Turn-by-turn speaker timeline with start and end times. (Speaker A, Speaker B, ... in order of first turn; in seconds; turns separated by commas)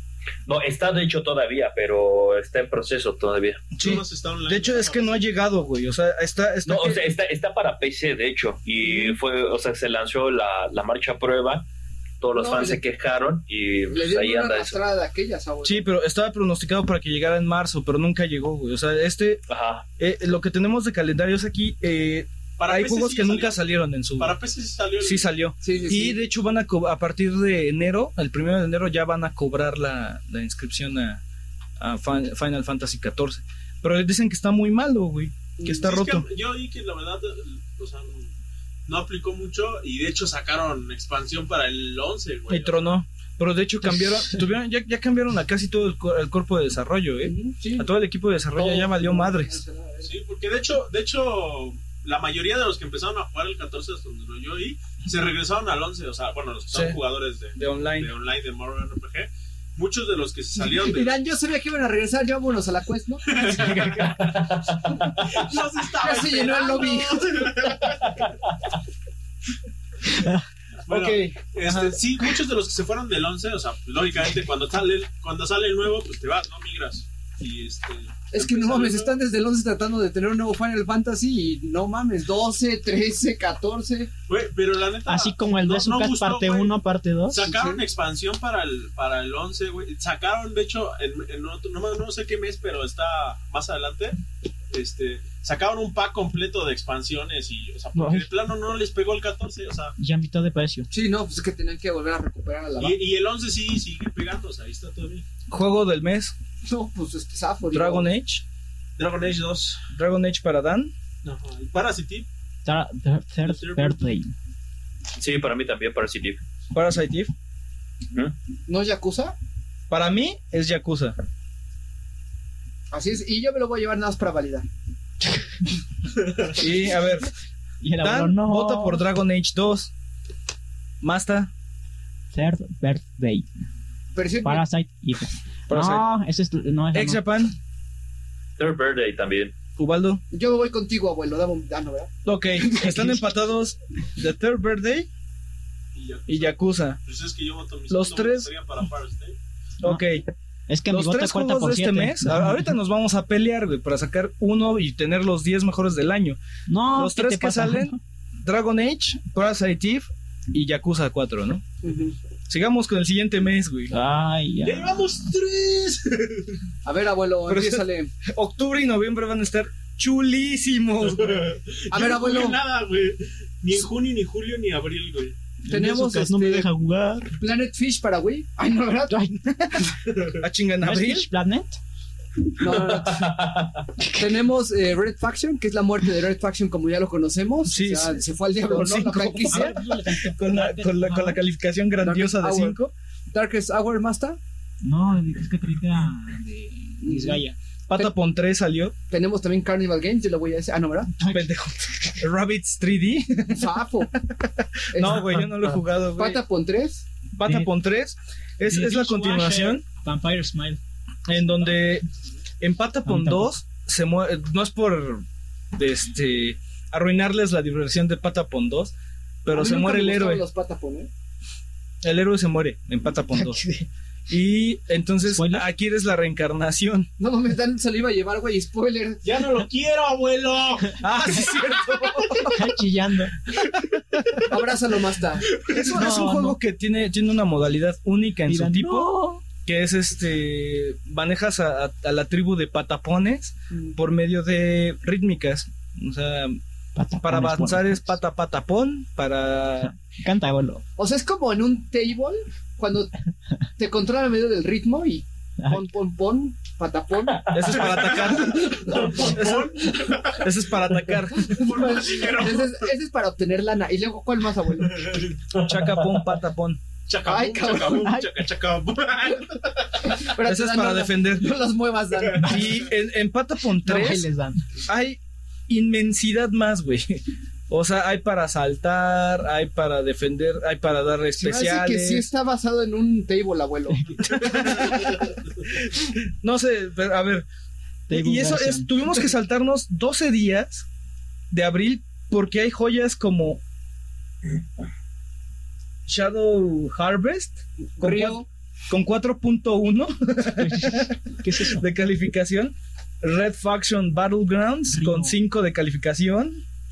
Speaker A: 0.5-3.7, Speaker B: 3.7-7.1, Speaker C: 3.8-5.2, Speaker A: 6.6-11.7, Speaker D: 8.8-9.1, Speaker A: 12.2-14.8, Speaker D: 12.3-12.8, Speaker D: 13.9-15.8, Speaker B: 15.6-19.4, Speaker A: 19.5-19.9, Speaker B: 20.0-24.4, Speaker C: 22.6-23.6, Speaker C: 24.1-25.3, Speaker B: 25.0-31.2, Speaker D: 25.6-26.2, Speaker B: 31.8-36.2, Speaker D: 35.6-35.9, Speaker C: 35.8-38.3, Speaker C: 38.9-42.9, Speaker B: 42.5-49.6, Speaker D: 47.2-47.9, Speaker D: 48.5-50.1, Speaker C: 50.0-61.1, Speaker B: 56.7-57.0, Speaker B: 57.5-58.1, Speaker D: 60.5-63.4, Speaker C: 63.3-64.2, Speaker A: 64.2-65.0, Speaker C: 65.2-68.3, Speaker D: 65.9-67.5, Speaker E: 70.1-70.4, Speaker C: 70.8-79.2, Speaker B: 70.9-71.9, Speaker D: 78.3-84.1, Speaker C: 84.3-86.8, Speaker E: 85.1-87.6, Speaker C: 87.3-94.2, Speaker C: 94.7-100.0, Speaker E: 98.0-98.3, Speaker E: 100.0-100.9, Speaker D: 100.9-103.0, Speaker C: 102.8-105.2, Speaker B: 105.5-106.3, Speaker D: 106.6-108.1, Speaker B: 107.7-108.4, Speaker C: 109.0-109.8, Speaker B: 109.9-110.9, Speaker C: 111.2-112.3, Speaker E: 112.6-114.3, Speaker C: 113.4-114.0, Speaker A: 115.2-116.4, Speaker B: 116.7-117.3, Speaker D: 118.7-119.3, Speaker B: 119.9-121.2, Speaker D: 122.9-124.7, Speaker B: 126.5-127.3, Speaker E: 127.8-129.0, Speaker B: 128.0-129.9, Speaker B: 131.0-131.5, Speaker E: 132.3-133.4, Speaker D: 134.1-134.6, Speaker E: 134.4-137.2, Speaker B: 135.7-136.1, Speaker B: 136.9-137.5, Speaker A: 138.6-139.6, Speaker B: 139.8-140.2, Speaker D: 140.3-143.1, Speaker B: 142.2-145.1, Speaker C: 145.9-149.4, Speaker B: 146.3-147.0, Speaker B: 147.9-148.5, Speaker B: 149.8-150.2, Speaker E: 150.7-152.7, Speaker B: 150.9-156.4, Speaker E: 156.7-158.0, Speaker B: 156.9-161.6, Speaker D: 161.8-162.2, Speaker B: 162.5-163.9, Speaker E: 163.9-165.2, Speaker C: 164.6-166.6, Speaker D: 166.8-168.1, Speaker B: 167.4-171.5, Speaker C: 171.0-175.3, Speaker D: 171.9-172.6, Speaker E: 175.6-177.3, Speaker D: 175.7-176.7, Speaker D: 177.4-179.2, Speaker E: 179.1-179.8, Speaker B: 180.4-181.3, Speaker E: 180.8-181.8, Speaker D: 182.6-183.4, Speaker E: 184.0-184.3, Speaker D: 184.1-189.8, Speaker B: 187.6-192.9, Speaker E: 189.5-191.4, Speaker D: 192.0-192.8, Speaker D: 193.3-194.4, Speaker E: 194.8-197.6, Speaker D: 197.0-197.4, Speaker B: 197.9-198.9, Speaker D: 199.1-201.1, Speaker E: 201.1-201.5, Speaker B: 201.2-206.4, Speaker D: 203.5-204.1, Speaker D: 204.9-205.2, Speaker D: 206.2-207.1, Speaker B: 207.4-209.8, Speaker E: 207.4-207.7, Speaker E: 208.6-210.8, Speaker B: 211.2-212.1, Speaker B: 212.6-220.4, Speaker E: 213.1-213.5, Speaker D: 219.5-221.1, Speaker B: 222.0-223.6, Speaker E: 223.3-223.9, Speaker B: 224.3-227.1, Speaker E: 225.3-225.7, Speaker D: 227.2-229.2, Speaker C: 229.2-231.1, Speaker B: 231.0-232.6, Speaker E: 232.5-233.3, Speaker B: 233.7-234.4, Speaker D: 234.5-235.6, Speaker C: 235.5-235.9, Speaker B: 235.6-239.1, Speaker E: 235.9-236.6, Speaker E: 238.5-239.4, Speaker B: 239.6-246.6, Speaker D: 243.7-244.0, Speaker E: 246.9-248.2, Speaker B: 247.2-249.9, Speaker E: 249.8-250.8, Speaker D: 251.0-253.1, Speaker D: 253.8-260.1, Speaker E: 255.6-255.8, Speaker B: 257.5-261.6, Speaker C: 257.7-260.5, Speaker D: 261.4-265.2, Speaker C: 261.5-262.9, Speaker C: 264.9-265.4, Speaker B: 265.6-266.8, Speaker C: 267.1-270.2, Speaker D: 267.2-268.1, Speaker E: 267.9-268.3, Speaker D: 270.1-272.9, Speaker B: 270.4-271.6, Speaker C: 272.1-272.7, Speaker B: 272.4-274.2, Speaker E: 273.8-274.6, Speaker B: 274.9-282.3, Speaker D: 281.4-284.1, Speaker E: 283.9-284.6, Speaker B: 284.2-287.4, Speaker B: 288.1-290.9, Speaker E: 288.1-288.9, Speaker B: 291.5-293.6, Speaker B: 296.1-306.6, Speaker D: 297.9-298.4, Speaker E: 300.6-301.8, Speaker E: 304.9-305.4